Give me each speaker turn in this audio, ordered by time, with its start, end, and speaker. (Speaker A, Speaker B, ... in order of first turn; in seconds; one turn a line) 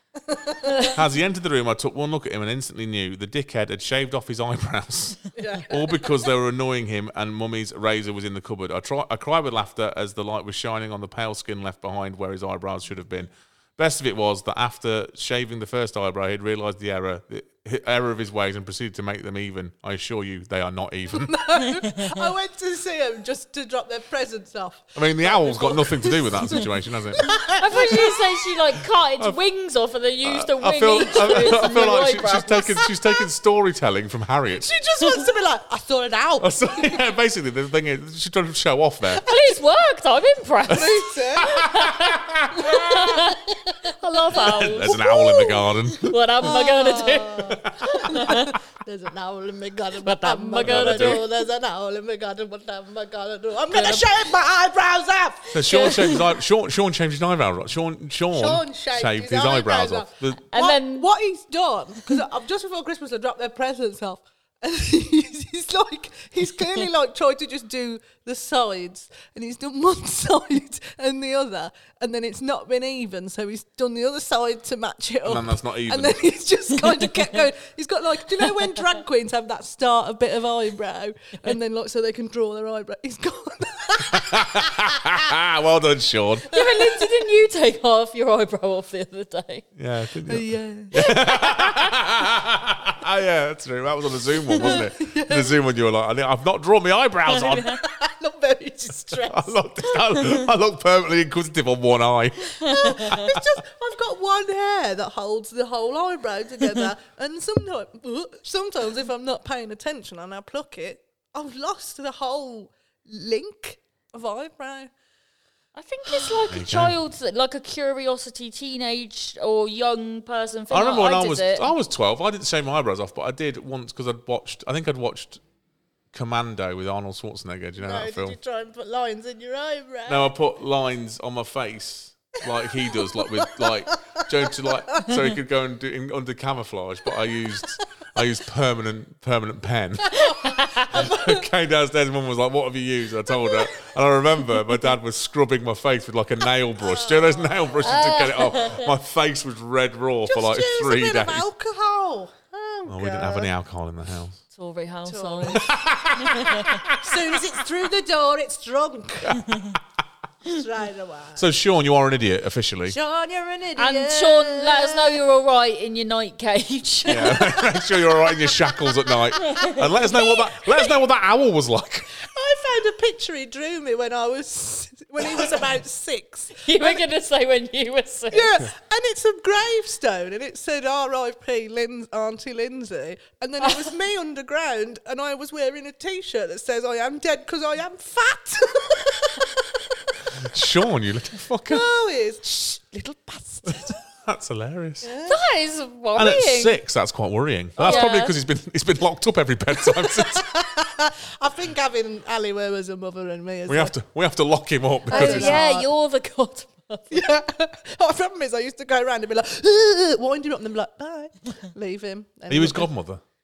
Speaker A: 0.2-0.9
Speaker B: 0.6-1.0
Speaker C: 0.9-21.3
Speaker A: 5.4-6.1
Speaker A: 21.1-28.2
Speaker B: 21.7-22.2
Speaker C: 24.9-27.3
Speaker B: 27.5-32.8
Speaker C: 30.2-34.7
Speaker A: 34.5-36.6
Speaker C: 36.4-39.3
Speaker B: 39.2-48.6
Speaker A: 40.7-41.6
Speaker C: 41.4-42.9
Speaker A: 42.5-43.8
Speaker C: 44.3-46.5
Speaker A: 44.5-45.5
Speaker A: 46.4-56.0
Speaker C: 47.6-48.3
Speaker B: 50.0-51.3
Speaker C: 50.6-51.2
Speaker B: 53.7-54.1
Speaker C: 55.5-60.4
Speaker B: 55.6-56.2
Speaker A: 58.3-84.7
Speaker B: 60.5-61.1
Speaker C: 75.2-76.2
Speaker C: 84.1-86.5
Speaker B: 86.5-89.7
Speaker C: 89.8-97.8
Speaker A: 90.3-91.0
Speaker B: 91.0-91.9
Speaker A: 94.6-95.6
Speaker A: 97.6-99.8
Speaker C: 99.3-103.4
Speaker A: 102.6-114.9
Speaker B: 115.8-121.7
Speaker C: 116.5-117.0
Speaker C: 120.7-125.4
Speaker C: 126.1-128.4
Speaker A: 127.8-130.3
Speaker C: 130.1-140.2
Speaker A: 132.7-135.1
Speaker A: 140.1-141.5
Speaker B: 140.2-141.0
Speaker C: 140.9-151.5
Speaker A: 143.4-143.7
Speaker A: 146.8-148.5
Speaker B: 147.8-148.9
Speaker A: 150.3-153.5
Speaker C: 152.9-154.4
Speaker B: 154.5-155.7
Speaker A: 155.1-155.7
Speaker C: 155.6-157.4
Speaker B: 156.2-156.8
Speaker A: 156.9-159.4
Speaker C: 159.2-159.8
Speaker A: 160.4-161.4
Speaker C: 161.4-163.0
Speaker A: 162.9-165.2
Speaker B: 163.8-167.6
Speaker C: 167.1-172.1
Speaker A: 167.3-168.9
Speaker B: 169.4-170.3
Speaker A: 170.1-170.4
Speaker A: 172.2-177.0
Speaker B: 176.6-178.6
Speaker A: 178.3-190.2
Speaker C: 190.4-191.8
Speaker A: 191.7-194.0
Speaker C: 193.8-195.1
Speaker A: 195.0-195.4
Speaker B: 195.2-196.8
Speaker C: 196.2-200.5
Speaker B: 197.8-198.3
Speaker A: 197.8-198.1
Speaker A: 199.9-204.0
Speaker C: 203.7-205.6
Speaker A: 205.1-205.9
Speaker B: 205.1-207.2
Speaker A: 207.1-212.9
Speaker C: 212.5-213.2